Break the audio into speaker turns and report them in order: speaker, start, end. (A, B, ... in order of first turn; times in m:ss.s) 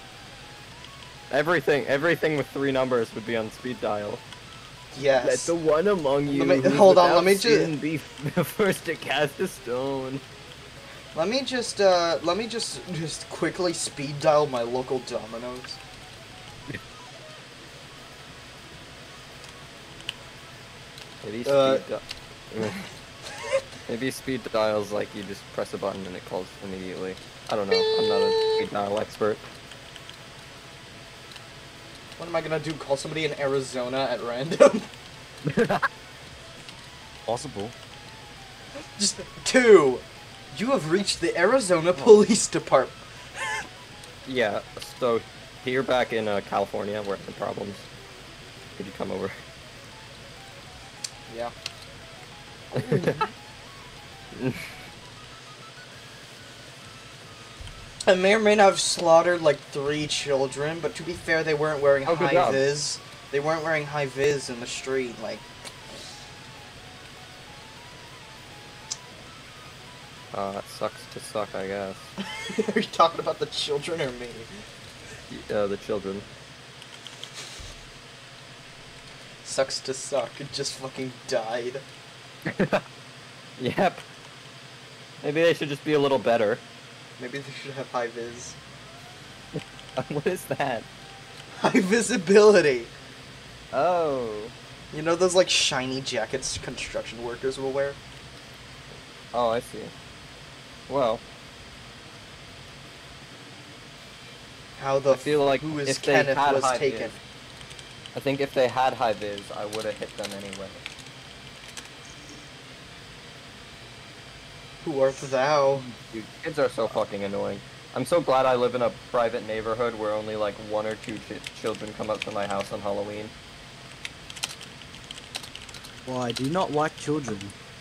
0:01.3-0:04.2 A
0:04.9-0:05.5 B
0:05.2-0:10.2 A
0:06.3-0:07.7 B
0:11.2-0:15.8 B
0:21.2-0:22.8 A
0:21.5-0:21.8 B
0:23.9-0:29.4 A
0:32.2-0:34.9 B
0:35.5-0:35.9 A
0:37.3-0:37.8 C
0:39.0-0:43.0 B
0:42.0-0:42.2 A
0:44.3-0:47.9 A
0:48.8-0:49.4 A
0:52.8-0:53.2 A
0:52.8-0:53.3 B
0:54.3-0:54.7 A
0:58.1-1:05.5 B
1:02.1-1:02.7 A
1:10.3-1:12.1 A
1:12.3-1:14.5 B
1:15.3-1:16.3 A
1:19.4-1:21.8 B
1:22.5-1:22.8 A
1:23.6-1:24.0 A
1:25.2-1:26.6 A
1:27.2-1:28.6 B
1:29.6-1:30.9 A
1:31.6-1:32.9 B
1:33.7-1:34.5 A
1:34.9-1:38.0 B
1:39.3-1:39.9 A
1:40.9-1:41.2 A
1:44.8-1:47.2 B
1:45.1-1:47.2 A
1:48.2-1:50.8 A
1:54.8-1:55.8 B
1:55.7-2:03.3 A
2:06.1-2:07.6 C